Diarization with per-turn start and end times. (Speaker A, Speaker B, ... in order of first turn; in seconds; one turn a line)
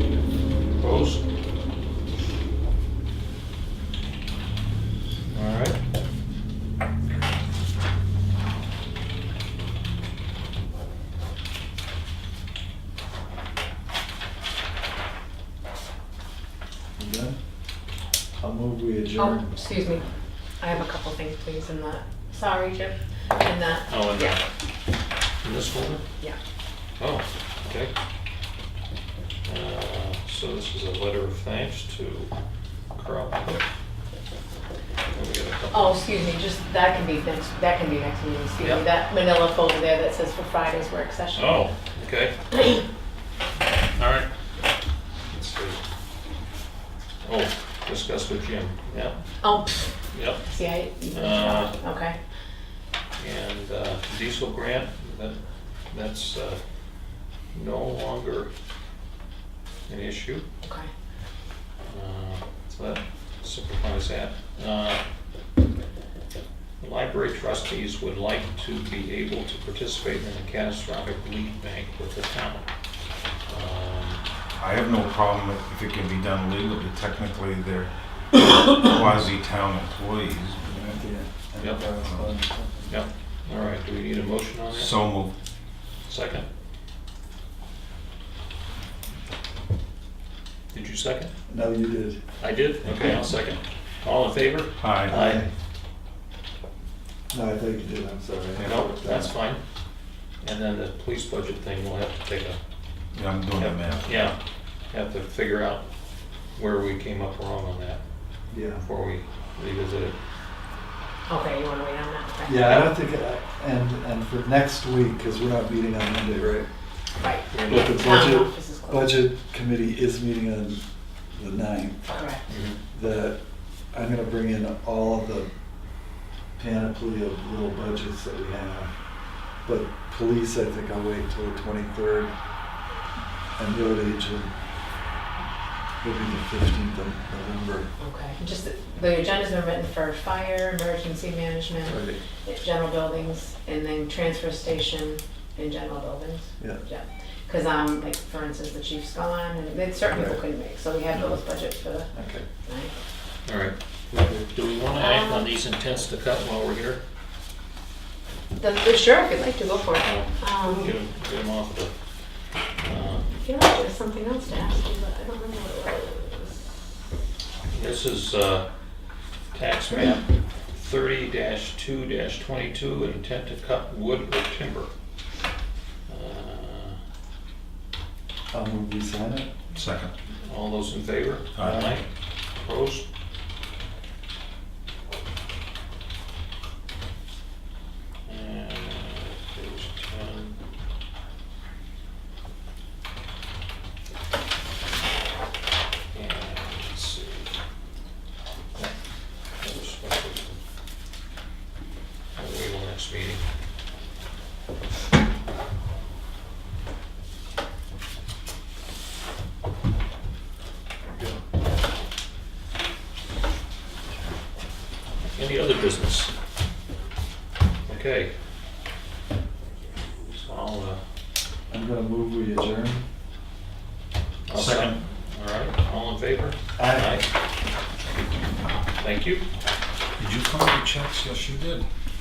Speaker A: 0.8-1.2
Speaker A: 5.3-5.8
Speaker B: 17.0-17.4
Speaker B: 18.4-19.6
Speaker C: 19.2-20.1
Speaker C: 20.6-24.4
Speaker A: 23.9-24.4
Speaker A: 25.4-26.0
Speaker A: 27.0-27.9
Speaker A: 29.4-32.3
Speaker A: 33.0-33.6
Speaker A: 35.1-36.0
Speaker C: 35.7-41.7
Speaker A: 41.4-42.4
Speaker C: 42.5-42.8
Speaker A: 44.0-44.3
Speaker A: 45.3-45.8
Speaker A: 47.2-49.2
Speaker C: 49.4-52.2
Speaker A: 50.1-51.8
Speaker A: 53.2-56.6
Speaker A: 57.5-58.5
Speaker A: 59.9-60.5
Speaker C: 60.6-60.9
Speaker A: 61.9-65.0
Speaker A: 66.8-72.7
Speaker A: 73.5-74.3
Speaker D: 74.6-80.6
Speaker B: 80.6-82.9
Speaker A: 81.6-81.8
Speaker D: 82.0-82.3
Speaker A: 82.9-84.9
Speaker D: 84.7-85.3
Speaker A: 86.1-86.5
Speaker A: 90.7-91.3
Speaker B: 91.5-92.2
Speaker A: 92.4-95.4
Speaker D: 92.8-93.3
Speaker D: 94.8-95.2
Speaker B: 95.1-95.5
Speaker B: 97.3-99.3
Speaker A: 98.6-99.6
Speaker A: 100.4-102.6
Speaker D: 103.1-104.2
Speaker A: 103.6-104.3
Speaker A: 104.9-105.8
Speaker A: 106.5-108.0
Speaker B: 108.5-108.8
Speaker A: 108.8-110.2
Speaker C: 111.3-112.8
Speaker B: 112.4-116.7
Speaker A: 112.6-112.9
Speaker C: 117.2-119.2
Speaker A: 117.5-118.0
Speaker B: 117.7-120.8
Speaker B: 121.3-122.2
Speaker C: 122.1-122.4
Speaker A: 122.5-122.8
Speaker B: 122.9-123.4
Speaker B: 123.9-125.5
Speaker B: 126.6-128.9
Speaker B: 129.7-132.3
Speaker B: 133.6-134.5
Speaker B: 136.0-137.9
Speaker C: 138.0-152.1
Speaker B: 141.8-142.2
Speaker B: 150.1-150.4
Speaker B: 152.1-152.5
Speaker C: 152.7-152.9
Speaker A: 153.4-153.8
Speaker B: 154.1-154.5
Speaker A: 154.5-157.0
Speaker C: 154.9-155.5
Speaker C: 158.6-160.9
Speaker A: 160.0-161.9
Speaker A: 162.8-163.3
Speaker C: 163.4-166.7
Speaker A: 167.7-168.7
Speaker A: 169.5-174.9
Speaker A: 176.1-177.0
Speaker B: 178.5-179.5
Speaker D: 179.7-180.1
Speaker A: 180.4-183.1
Speaker D: 181.6-181.9
Speaker B: 181.6-182.0
Speaker A: 188.2-190.6
Speaker A: 196.1-197.5
Speaker A: 199.6-200.6
Speaker A: 202.3-203.5
Speaker B: 211.1-211.4
Speaker A: 215.3-216.3
Speaker A: 217.9-218.3
Speaker A: 220.3-221.0
Speaker B: 221.7-223.1
Speaker A: 224.5-227.3
Speaker D: 224.5-225.0
Speaker B: 226.8-227.2
Speaker A: 229.0-229.4
Speaker D: 230.2-231.9